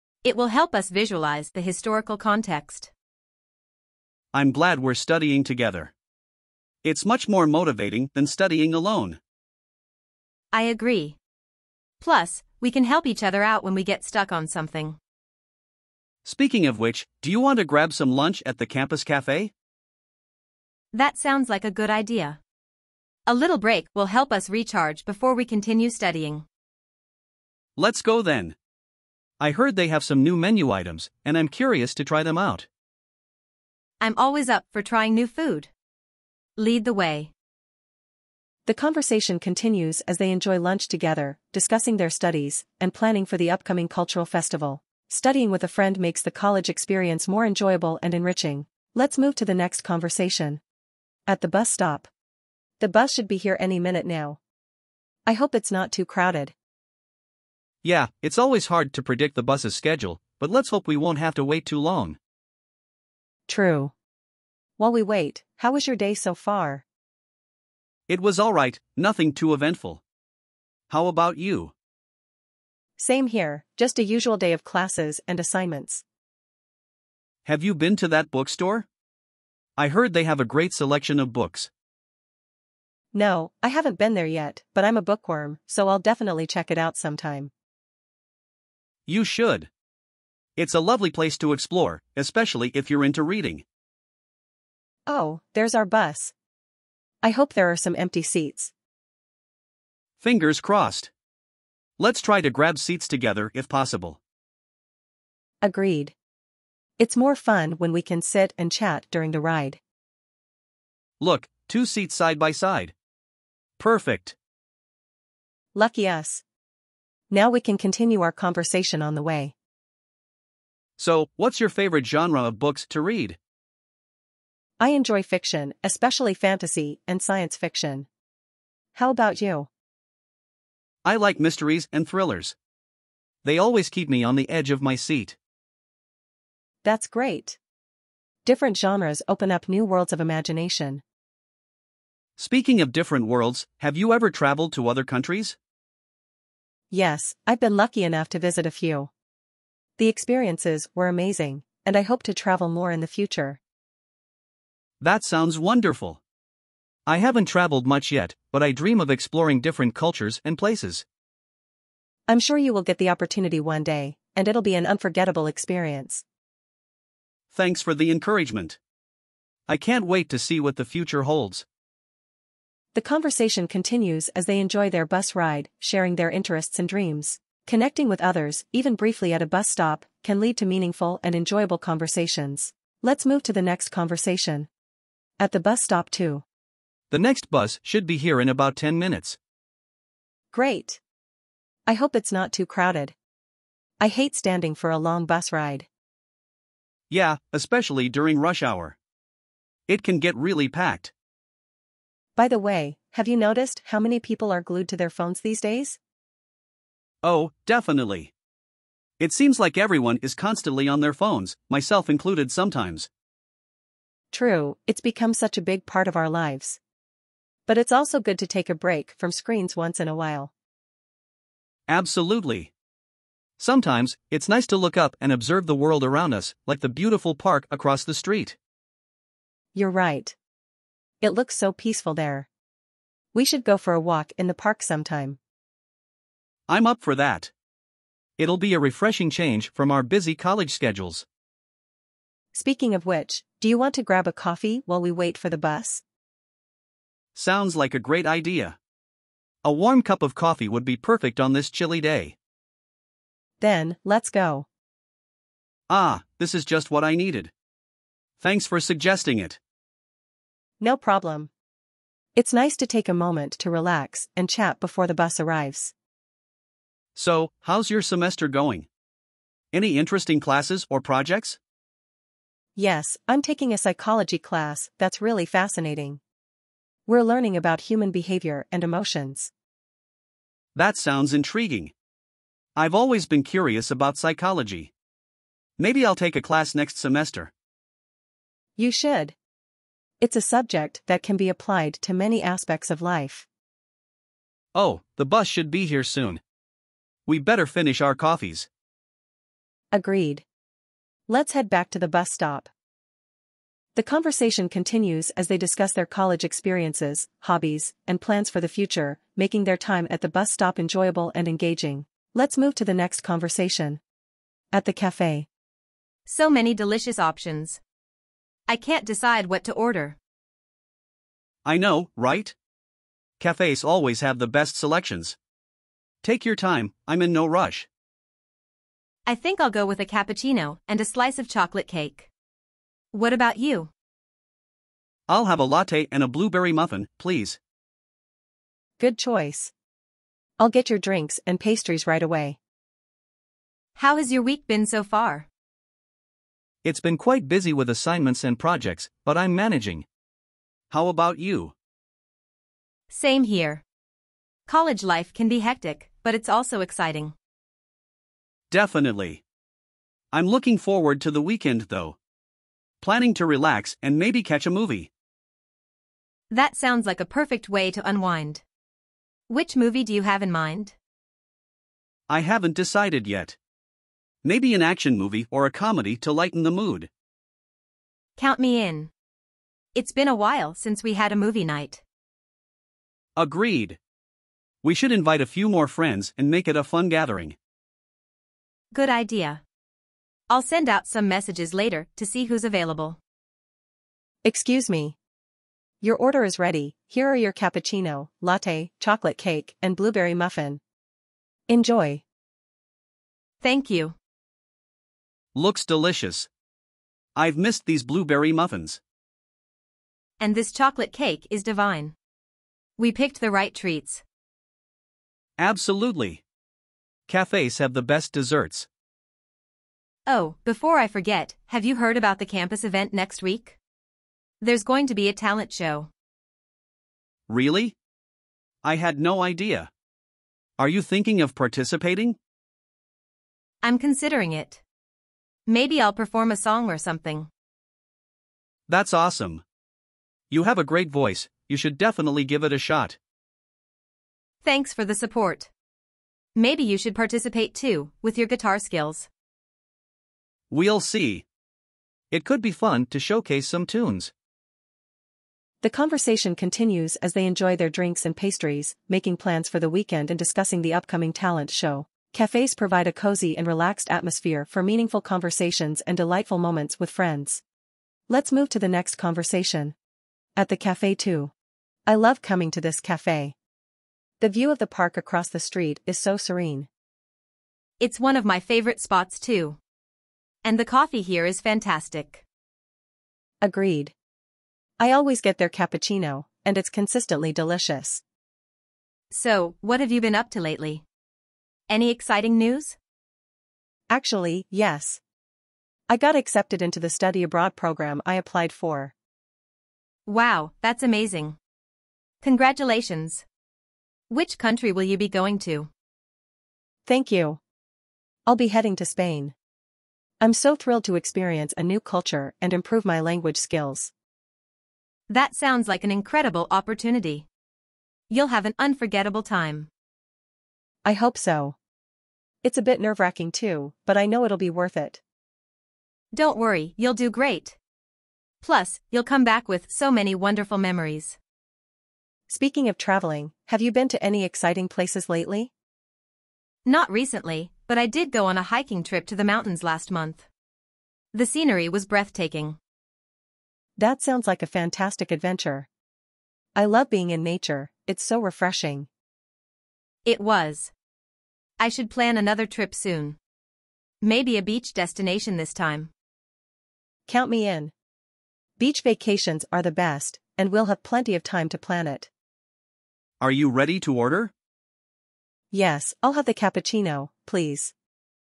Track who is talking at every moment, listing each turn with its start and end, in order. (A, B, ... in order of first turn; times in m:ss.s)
0:00.2-0:02.9 A
0:04.3-0:05.9 B
0:06.8-0:09.2 B
0:10.5-0:11.2 A
0:12.0-0:15.0 A
0:16.2-0:19.5 B
0:20.9-0:22.4 A
0:23.3-0:26.4 A
0:27.8-0:28.6 B
0:29.4-0:32.7 B
0:34.0-0:35.7 A
0:36.6-0:37.3 A
0:38.7-0:50.6 C
0:51.3-0:52.1 C
0:52.8-0:54.4 C
0:55.3-0:56.5 C
0:57.8-1:02.2 B
1:03.5-1:03.9 C
1:04.8-1:06.8 C
1:08.1-1:10.0 B
1:10.9-1:11.7 B
1:13.0-1:16.0 C
1:17.4-1:18.9 B
1:19.8-1:21.7 B
1:23.1-1:27.5 C
1:29.1-1:29.7 B
1:30.6-1:33.6 B
1:35.1-1:36.3 C
1:37.2-1:38.7 C
1:40.2-1:41.1 B
1:42.0-1:44.2 B
1:45.6-1:46.1 C
1:47.0-1:49.8 C
1:51.2-1:52.9 B
1:53.8-1:54.4 B
1:55.8-1:56.4 C
1:57.3-1:59.5 C
2:01.0-2:03.4 B
2:04.8-2:08.1 C
2:09.0-2:09.7 C
2:11.0-2:12.6 B
2:13.4-2:15.4 B
2:16.8-2:17.6 C
2:18.4-2:21.0 C
2:22.4-2:25.6 B
2:26.9-2:29.1 C
2:30.0-2:33.6 C
2:35.0-2:36.2 B
2:37.1-2:41.0 B
2:42.3-2:46.2 C
2:47.5-2:48.8 B
2:49.7-2:51.6 B
2:52.9-3:04.7 C
3:05.4-3:06.4 C
3:07.1-3:09.4 B
3:10.5-3:11.0 C
3:11.9-3:13.2 C
3:14.0-3:15.9 C
3:17.1-3:19.0 B
3:19.9-3:21.1 B
3:22.4-3:26.0 C
3:27.2-3:28.3 B
3:29.2-3:33.1 B
3:34.3-3:36.8 C
3:37.7-3:40.5 C
3:41.9-3:42.7 B
3:43.6-3:48.6 B
3:49.8-3:50.4 C
3:51.2-3:52.5 C
3:53.3-3:55.4 C
3:56.7-3:57.5 B
3:58.4-4:01.3 B
4:02.5-4:06.0 C
4:07.4-4:08.8 B
4:09.6-4:12.4 B
4:13.6-4:14.7 C
4:15.9-4:17.5 B
4:18.4-4:19.6 B
4:20.8-4:21.5 C
4:22.4-4:25.9 C
4:27.2-4:28.9 B
4:29.7-4:31.6 B
4:32.8-4:36.2 C
4:37.1-4:39.5 C
4:40.8-4:41.9 B
4:42.8-4:44.9 B
4:45.8-4:47.5 B
4:48.8-4:49.4 C
4:50.2-4:53.5 C
4:54.8-4:56.4 B
4:57.3-4:58.7 B
4:59.9-5:00.4 C
5:01.3-5:02.7 C
5:04.0-5:14.0 C
5:14.7-5:15.5 C
5:16.3-5:17.8 A
5:18.7-5:20.2 A
5:21.6-5:22.6 B
5:23.4-5:25.4 B
5:26.2-5:27.9 B
5:29.3-5:32.3 A
5:33.1-5:33.9 A
5:35.3-5:37.6 B
5:39.0-5:39.7 C
5:40.6-5:42.6 C
5:44.0-5:45.4 A
5:46.8-5:50.1 B
5:50.9-5:51.7 B
5:53.1-5:53.8 A
5:54.7-5:57.3 A
5:58.7-5:59.4 B
6:00.3-6:02.2 B
6:03.0-6:05.1 B
6:06.5-6:08.6 A
6:09.5-6:10.9 A
6:12.3-6:13.6 B
6:14.4-6:17.1 B
6:18.4-6:19.1 A
6:20.0-6:22.0 A
6:23.4-6:24.0 B
6:24.8-6:27.6 B
6:28.9-6:29.6 A
6:30.5-6:33.2 A
6:34.4-6:35.2 C
6:36.0-6:40.8 C
6:41.7-6:42.2 C
6:43.6-6:44.2 A
6:45.6-6:46.5 B
6:47.4-6:49.0 B
6:50.4-6:52.2 A
6:53.0-6:54.2 A
6:55.6-6:56.4 B
6:57.3-6:58.9 B
7:00.3-7:03.8 A
7:04.6-7:06.1 A
7:07.5-7:08.0 B
7:08.8-7:09.9 B
7:10.8-7:12.4 B
7:13.8-7:14.8 A
7:15.7-7:17.5 A
7:18.9-7:19.6 B
7:20.5-7:23.2 B
7:24.6-7:25.7 A
7:26.6-7:29.3 A
7:30.7-7:31.4 B
7:32.3-7:34.3 B
7:35.8-7:47.6 C
7:48.3-7:50.0 C
7:50.6-7:51.5 C
7:52.1-7:53.6 C
7:54.4-7:56.9 C
7:58.0-7:59.8 A
8:00.6-8:02.4 A
8:03.6-8:04.1 C
8:05.0-8:08.2 C
8:09.3-8:11.0 A
8:11.9-8:13.0 A
8:14.1-8:15.2 C
8:16.1-8:19.1 C
8:20.3-8:21.6 A
8:22.4-8:23.4 A
8:24.3-8:25.9 A
8:27.1-8:27.6 C
8:28.5-8:29.5 C
8:30.4-8:34.1 C
8:35.3-8:37.4 A
8:38.3-8:39.9 A
8:41.0-8:41.8 C
8:42.6-8:45.2 C
8:46.3-8:47.8 A
8:48.6-8:51.4 A
8:52.5-8:55.7 C
8:56.8-9:00.4 A
9:01.3-9:02.8 A
9:04.0-9:05.9 C
9:06.8-9:09.1 C
9:10.2-9:10.9 A
9:11.8-9:13.4 A
9:14.2-9:16.1 A
9:17.3-9:17.9 C
9:18.8-9:22.3 C
9:23.4-9:24.5 B
9:25.7-9:27.9 C